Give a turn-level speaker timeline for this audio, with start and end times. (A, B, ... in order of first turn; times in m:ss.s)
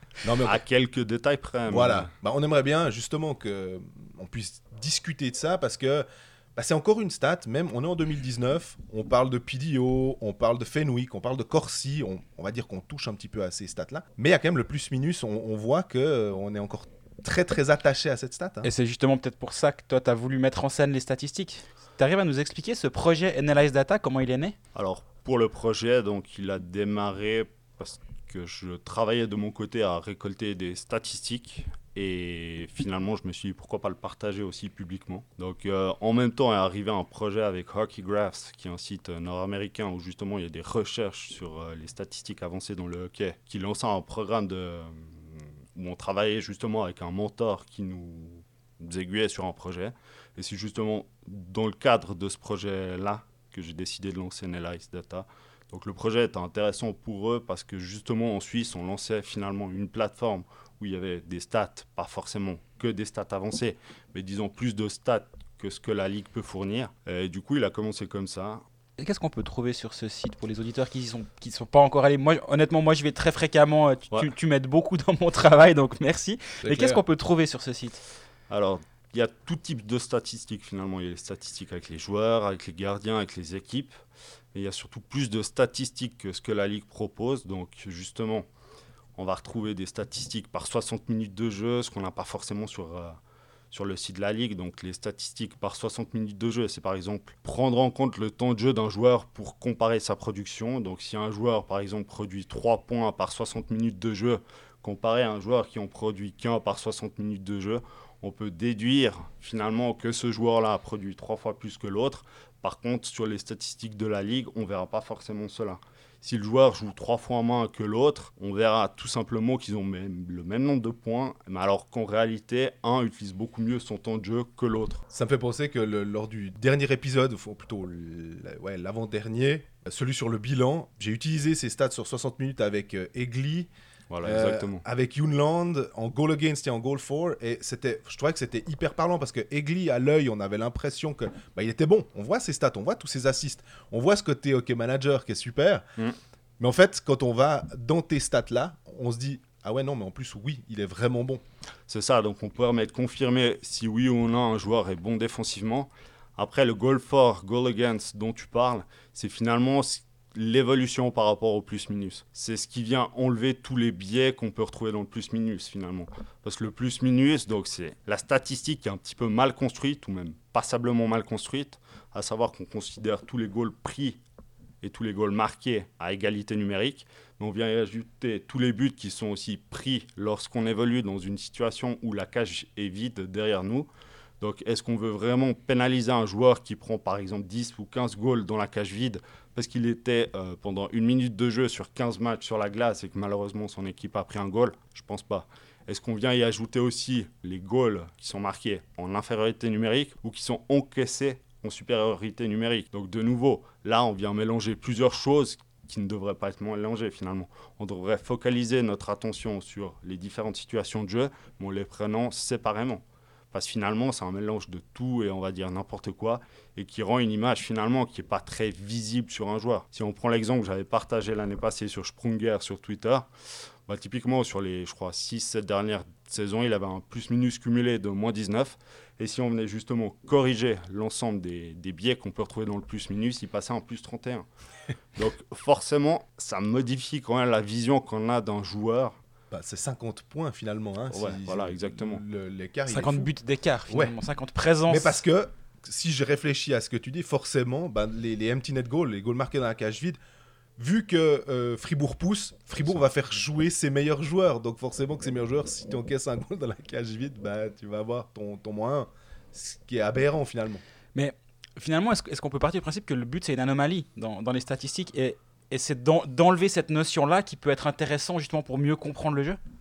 0:00.2-0:00.6 A
0:00.4-0:02.1 B
0:01.7-0:18.7 A
0:18.6-0:24.6 C
0:24.8-1:08.6 B
1:09.0-1:18.0 C
1:16.6-1:17.0 A
1:18.5-1:24.0 B
1:24.5-1:28.5 B
1:29.2-1:33.2 B
1:33.7-2:05.0 B
2:05.1-2:13.7 A
2:14.1-2:14.8 B
2:14.2-2:25.9 A
2:26.6-2:31.4 A
2:31.9-2:54.2 B
2:54.8-3:03.9 B
3:04.4-3:43.3 B
3:43.9-3:54.5 B
3:55.2-3:59.2 B
3:59.5-4:03.3 A
4:01.1-4:02.2 B
4:02.9-4:05.2 C
4:03.9-4:04.2 A
4:04.9-4:10.2 A
4:10.8-4:20.8 A
4:21.2-4:29.6 C